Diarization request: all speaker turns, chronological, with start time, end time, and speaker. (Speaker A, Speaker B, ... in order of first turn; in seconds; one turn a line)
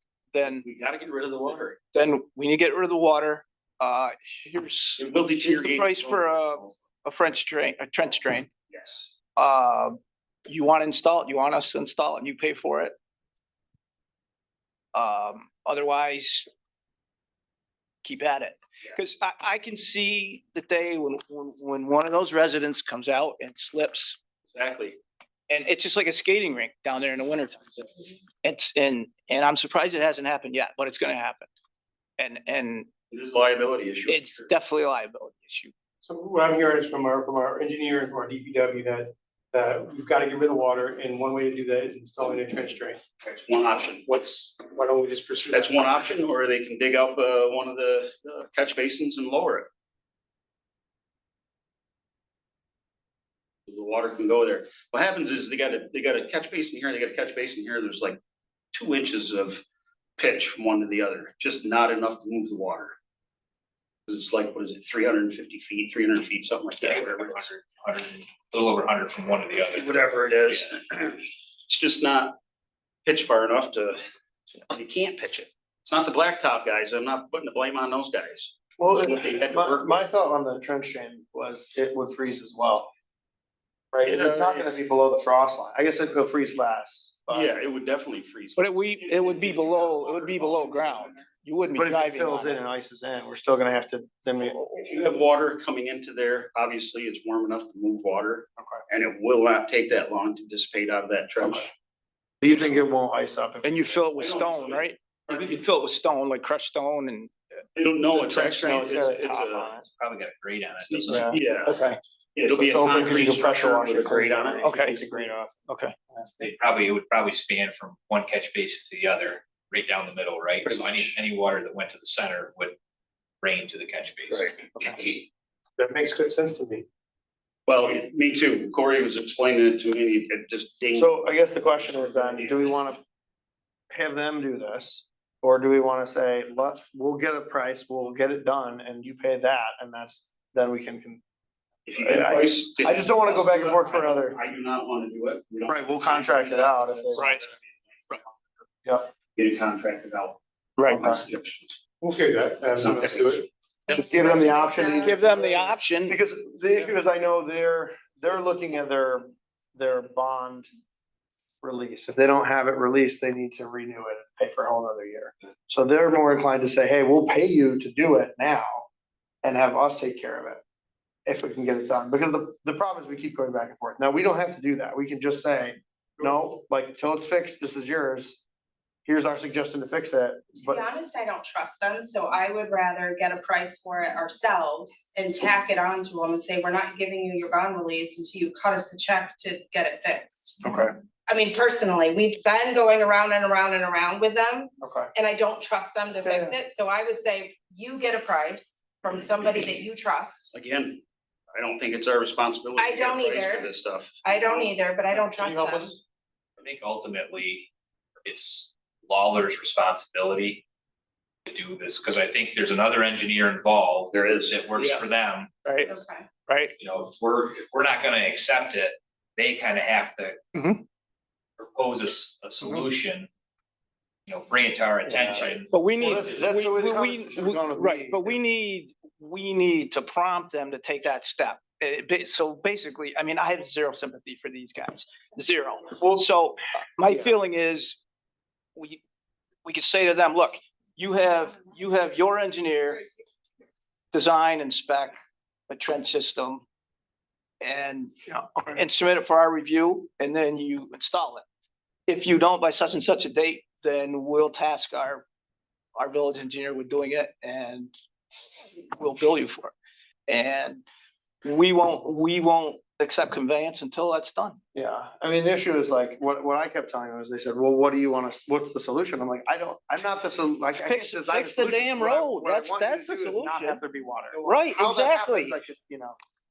Speaker A: 0.3-0.6
Speaker B: 0.4-1.8
Speaker A: 1.9-8.5
Speaker B: 5.0-6.7
Speaker B: 8.7-9.1
Speaker A: 9.3-12.9
Speaker A: 14.9-16.5
Speaker A: 18.0-24.2
Speaker B: 24.5-25.0
Speaker A: 25.5-27.8
Speaker A: 28.4-31.5
Speaker A: 32.2-32.9
Speaker B: 33.1-34.5
Speaker A: 34.1-35.7
Speaker C: 36.0-43.0
Speaker B: 43.2-44.6
Speaker C: 44.3-46.0
Speaker B: 45.5-49.7
Speaker B: 53.7-58.2
Speaker B: 58.7-59.6
Speaker B: 60.2-62.9
Speaker B: 64.1-67.5
Speaker D: 66.8-69.9
Speaker B: 69.7-72.3
Speaker B: 73.0-74.0
Speaker B: 74.7-79.9
Speaker E: 78.8-82.9
Speaker E: 83.9-87.5
Speaker B: 84.0-84.8
Speaker B: 87.3-91.2
Speaker A: 88.5-92.6
Speaker E: 91.8-94.6
Speaker A: 94.4-95.1
Speaker B: 94.8-101.7
Speaker E: 98.6-98.8
Speaker E: 102.4-103.8
Speaker A: 103.6-107.3
Speaker B: 104.2-105.6
Speaker B: 107.8-109.7
Speaker E: 108.1-109.9
Speaker D: 109.9-111.1
Speaker B: 110.9-111.8
Speaker E: 111.1-111.4
Speaker A: 111.6-112.0
Speaker B: 112.3-114.7
Speaker E: 112.5-115.6
Speaker A: 114.6-115.0
Speaker A: 115.7-115.9
Speaker E: 116.1-116.5
Speaker D: 116.4-122.8
Speaker D: 123.4-124.5
Speaker B: 124.3-125.2
Speaker C: 125.8-126.8
Speaker B: 127.7-131.1
Speaker E: 130.9-133.0
Speaker B: 132.1-132.7
Speaker E: 133.9-141.2
Speaker B: 141.9-148.3
Speaker E: 142.0-144.4
Speaker E: 145.7-147.3
Speaker A: 147.2-147.4
Speaker B: 149.3-151.8
Speaker A: 150.8-151.2
Speaker E: 150.9-151.2
Speaker C: 152.0-153.4
Speaker B: 152.7-153.5
Speaker E: 153.9-155.4
Speaker F: 153.9-155.5
Speaker A: 154.9-156.2
Speaker E: 156.1-160.7
Speaker E: 161.6-168.8
Speaker E: 169.4-170.6
Speaker E: 171.2-178.4
Speaker E: 179.1-180.8
Speaker F: 180.6-190.6
Speaker E: 190.6-190.9
Speaker F: 191.3-200.5
Speaker E: 194.8-195.1
Speaker E: 196.2-196.5
Speaker B: 200.5-201.0
Speaker B: 201.5-205.9
Speaker F: 202.8-205.9
Speaker D: 206.6-207.7
Speaker D: 208.2-210.6
Speaker D: 211.4-215.5
Speaker B: 214.1-214.7
Speaker A: 214.8-215.0
Speaker A: 215.6-215.9
Speaker F: 215.8-216.3
Speaker A: 216.5-216.8
Speaker D: 216.8-220.4
Speaker A: 220.5-220.8
Speaker D: 221.6-223.3
Speaker D: 224.3-225.7
Speaker E: 225.1-228.4
Speaker A: 225.7-238.0
Speaker E: 236.0-236.3
Speaker E: 237.0-237.3
Speaker A: 238.7-239.0
Speaker A: 239.6-243.0
Speaker A: 244.1-245.2
Speaker A: 245.7-246.6
Speaker A: 247.6-251.4
Speaker E: 248.3-248.8
Speaker A: 252.1-255.2
Speaker A: 255.9-257.9
Speaker A: 258.8-259.7
Speaker A: 260.3-260.8
Speaker A: 261.4-264.6
Speaker E: 264.7-276.2
Speaker A: 270.8-273.8
Speaker A: 274.4-275.5